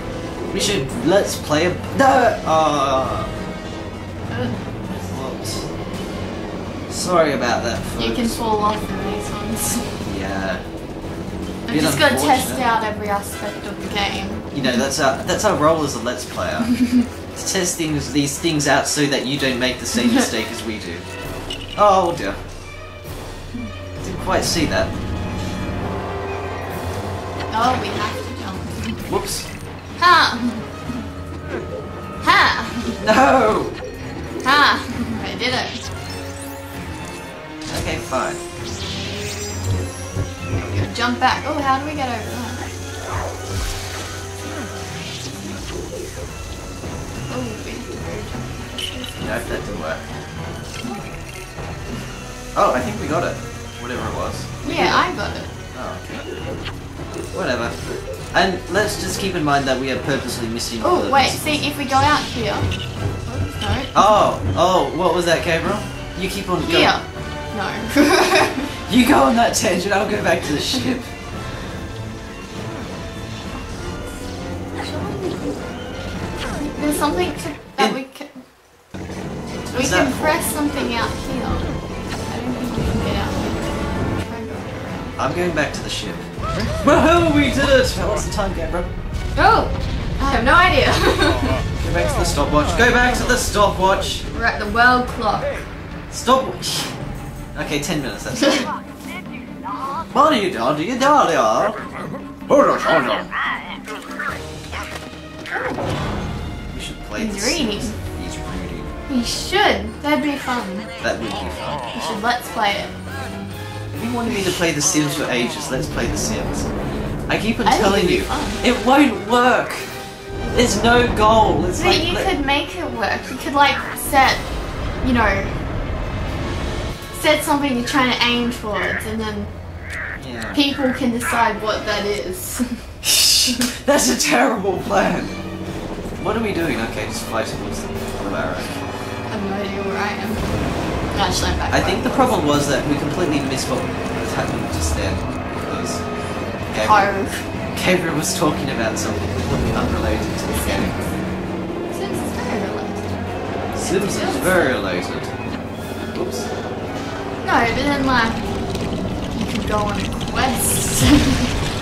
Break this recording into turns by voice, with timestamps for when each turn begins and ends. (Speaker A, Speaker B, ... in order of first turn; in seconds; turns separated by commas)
Speaker A: 0.5-3.3, Speaker B: 4.3-4.6, Speaker A: 4.9-5.7, Speaker A: 6.9-8.4, Speaker B: 8.0-10.0, Speaker A: 10.0-10.6, Speaker B: 11.7-14.8, Speaker A: 11.7-12.7, Speaker A: 14.5-16.7, Speaker B: 16.7-17.0, Speaker A: 17.3-21.0, Speaker B: 20.0-20.2, Speaker A: 21.8-22.4, Speaker A: 24.0-24.9, Speaker B: 27.5-29.0, Speaker A: 29.1-29.5, Speaker B: 30.0-30.7, Speaker B: 32.2-33.0, Speaker A: 33.0-33.8, Speaker B: 34.4-35.8, Speaker A: 37.7-38.4, Speaker B: 40.5-42.6, Speaker B: 47.3-49.4, Speaker A: 49.2-50.1, Speaker A: 52.5-55.0, Speaker B: 54.6-55.5, Speaker A: 55.7-56.2, Speaker A: 57.3-61.6, Speaker B: 60.8-62.7, Speaker B: 63.2-64.1, Speaker A: 63.9-66.9, Speaker B: 66.6-68.7, Speaker A: 68.9-71.1, Speaker B: 73.6-73.9, Speaker B: 74.8-75.6, Speaker B: 76.5-78.4, Speaker A: 79.6-80.3, Speaker B: 79.7-81.7, Speaker B: 82.3-85.0, Speaker A: 85.2-86.3, Speaker A: 86.8-88.9, Speaker B: 89.3-91.6, Speaker A: 91.8-94.2, Speaker B: 94.3-95.5, Speaker A: 96.1-97.0, Speaker A: 97.5-98.7, Speaker A: 100.1-101.8, Speaker A: 102.5-103.3, Speaker A: 106.7-108.9, Speaker B: 107.2-108.0, Speaker B: 109.1-110.9, Speaker A: 111.0-111.8, Speaker B: 111.9-112.9, Speaker A: 113.9-116.7, Speaker A: 117.3-119.9, Speaker B: 117.6-118.6, Speaker A: 120.5-122.3, Speaker B: 121.8-124.5, Speaker B: 125.0-125.6, Speaker B: 127.1-129.5, Speaker A: 130.2-130.6, Speaker B: 130.5-132.8, Speaker A: 133.0-135.3, Speaker A: 136.2-138.8, Speaker B: 139.3-140.5, Speaker B: 141.1-142.4, Speaker A: 141.7-146.0, Speaker A: 146.7-147.1, Speaker B: 146.8-147.4, Speaker A: 147.7-151.0, Speaker B: 150.5-151.0, Speaker B: 151.9-153.2, Speaker A: 153.7-155.3, Speaker B: 153.8-154.7, Speaker A: 156.1-156.5, Speaker B: 157.4-158.5, Speaker B: 159.3-161.6